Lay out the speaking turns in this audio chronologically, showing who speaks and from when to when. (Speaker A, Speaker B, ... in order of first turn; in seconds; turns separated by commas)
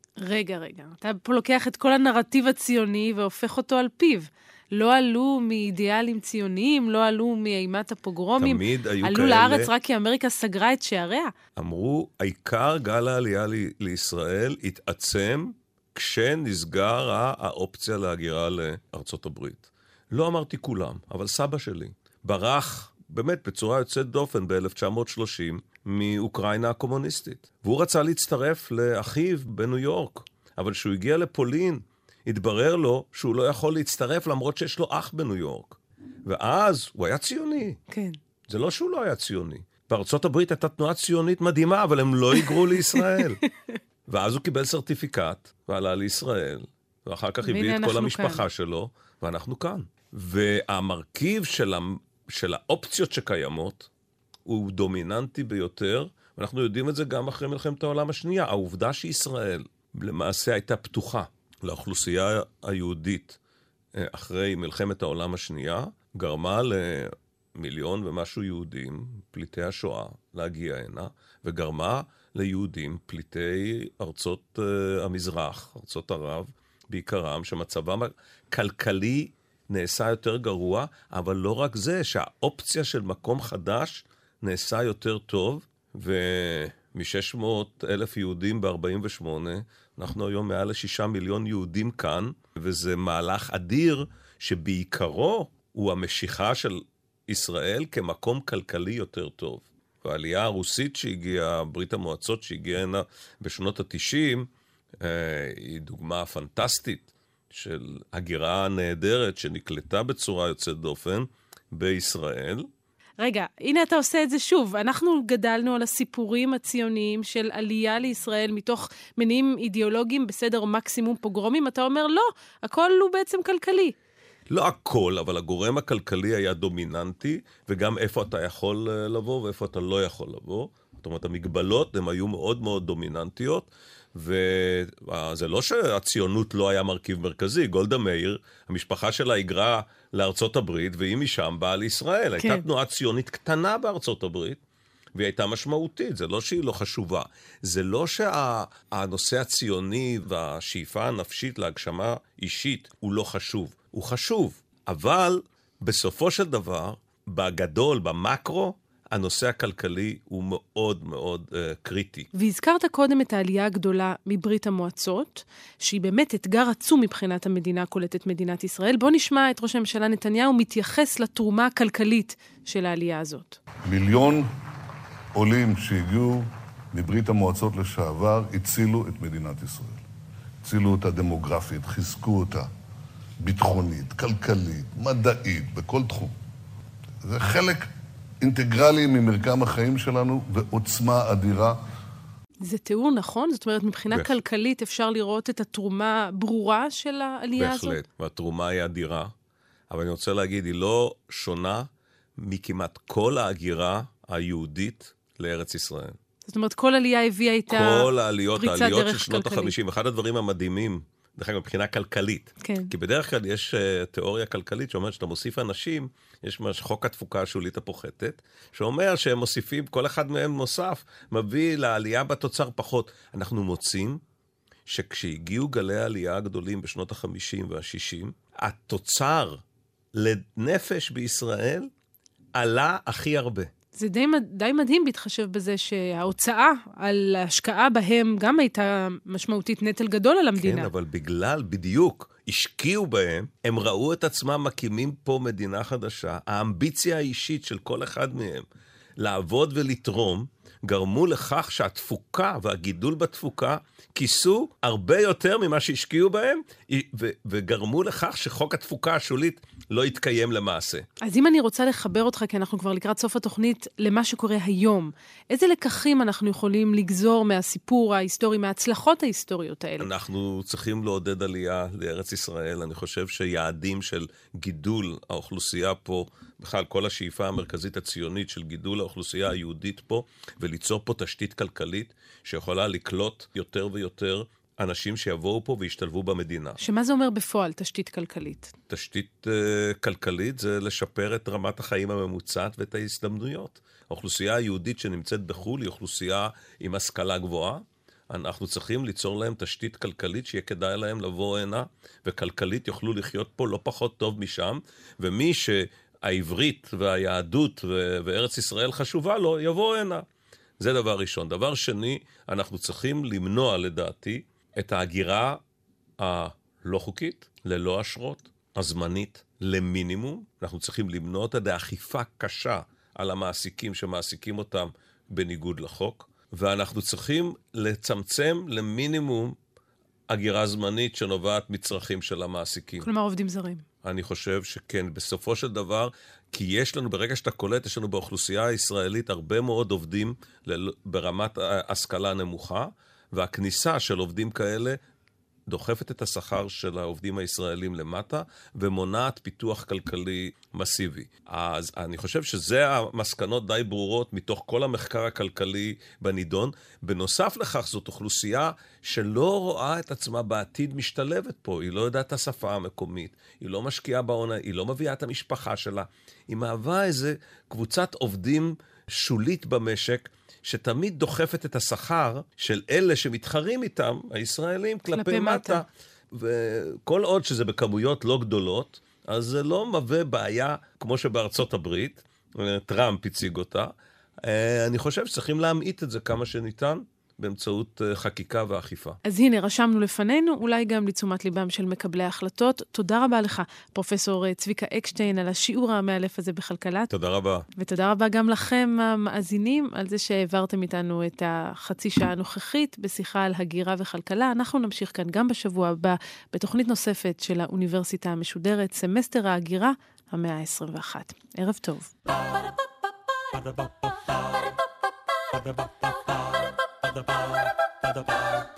Speaker A: 0.2-11.3, Speaker B: 8.4-9.7, Speaker B: 11.6-37.8, Speaker A: 37.9-38.2, Speaker B: 38.5-43.4, Speaker A: 42.4-43.8, Speaker B: 44.1-53.9, Speaker A: 47.4-48.5, Speaker B: 54.5-63.4, Speaker B: 64.0-104.5, Speaker B: 105.0-112.7, Speaker A: 113.2-124.0, Speaker B: 124.5-144.6, Speaker A: 142.4-142.6, Speaker B: 145.2-162.3, Speaker A: 162.3-173.6, Speaker C: 173.8-174.5, Speaker C: 175.3-180.0, Speaker C: 180.6-182.7, Speaker C: 183.4-186.3, Speaker C: 187.2-187.9, Speaker C: 188.4-191.8, Speaker A: 192.6-198.0, Speaker B: 194.1-194.4, Speaker B: 197.6-199.3, Speaker B: 199.9-206.2, Speaker A: 206.5-209.7, Speaker B: 207.7-224.2, Speaker A: 212.6-212.9, Speaker B: 224.9-229.6, Speaker B: 230.1-231.9, Speaker B: 232.6-233.7, Speaker A: 234.0-240.9, Speaker B: 240.6-248.7, Speaker B: 249.2-261.1, Speaker A: 261.2-270.1, Speaker B: 270.0-286.8, Speaker A: 286.8-288.7, Speaker B: 288.9-310.2, Speaker B: 310.8-315.6, Speaker B: 316.2-329.6, Speaker B: 330.3-333.1, Speaker A: 333.0-333.9, Speaker B: 334.0-345.0, Speaker B: 345.7-383.9, Speaker A: 375.1-375.8, Speaker B: 384.4-389.2, Speaker A: 389.2-397.1, Speaker B: 397.1-397.6, Speaker A: 397.8-412.1